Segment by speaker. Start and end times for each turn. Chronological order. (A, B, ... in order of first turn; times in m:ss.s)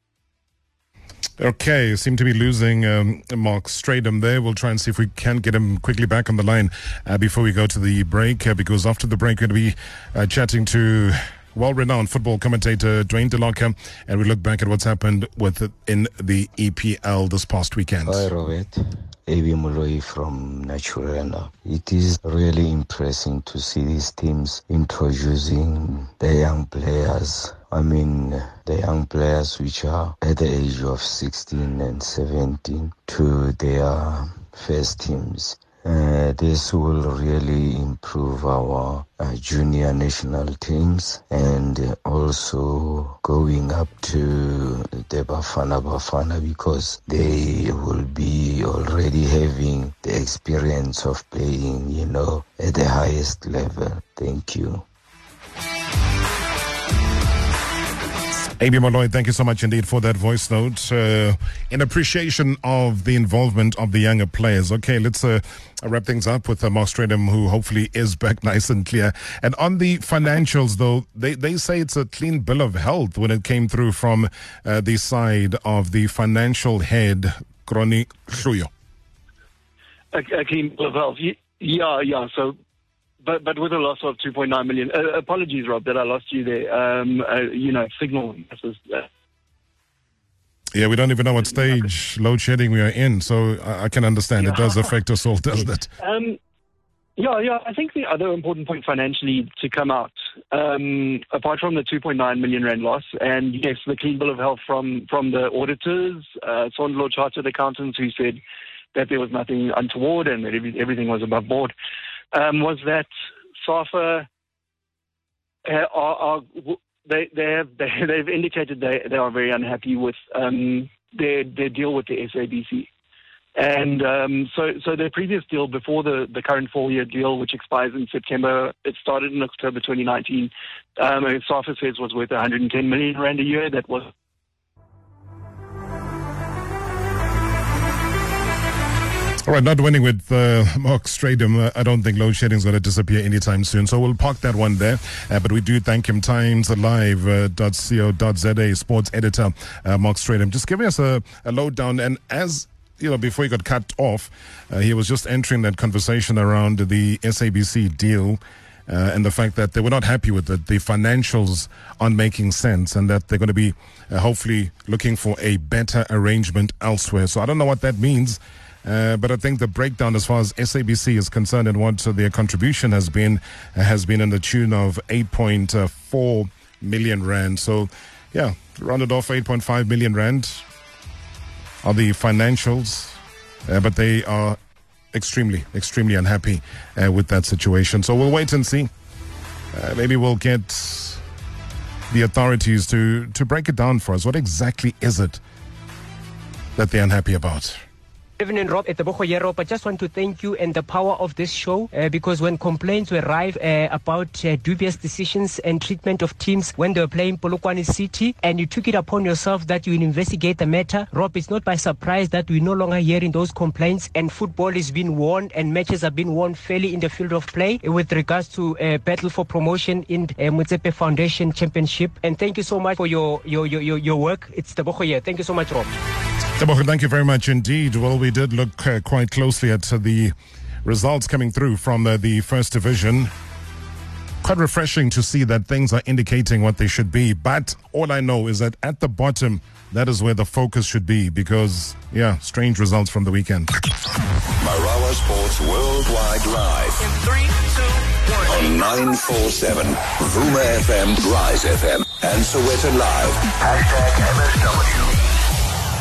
0:01.4-0:18.3 A
0:18.0-0:54.8 B
0:58.6-1:18.7 A
1:20.1-1:22.6 C
1:23.2-1:29.1 C
1:30.7-1:35.9 A
1:36.0-1:36.4 C
1:37.2-1:48.4 C
1:48.9-1:51.7 C
1:52.3-1:53.1 C
1:53.6-1:54.3 C
1:55.6-2:02.9 C
2:03.6-2:14.1 C
2:19.4-3:00.6 A
3:01.8-3:04.6 A
3:05.1-3:08.9 A
3:09.7-3:11.2 A
3:12.1-3:15.4 A
3:16.8-3:17.8 A
3:18.4-3:45.9 D
3:46.6-3:53.3 A
3:54.4-4:03.7 A
4:04.6-4:07.2 E
4:08.3-4:15.1 E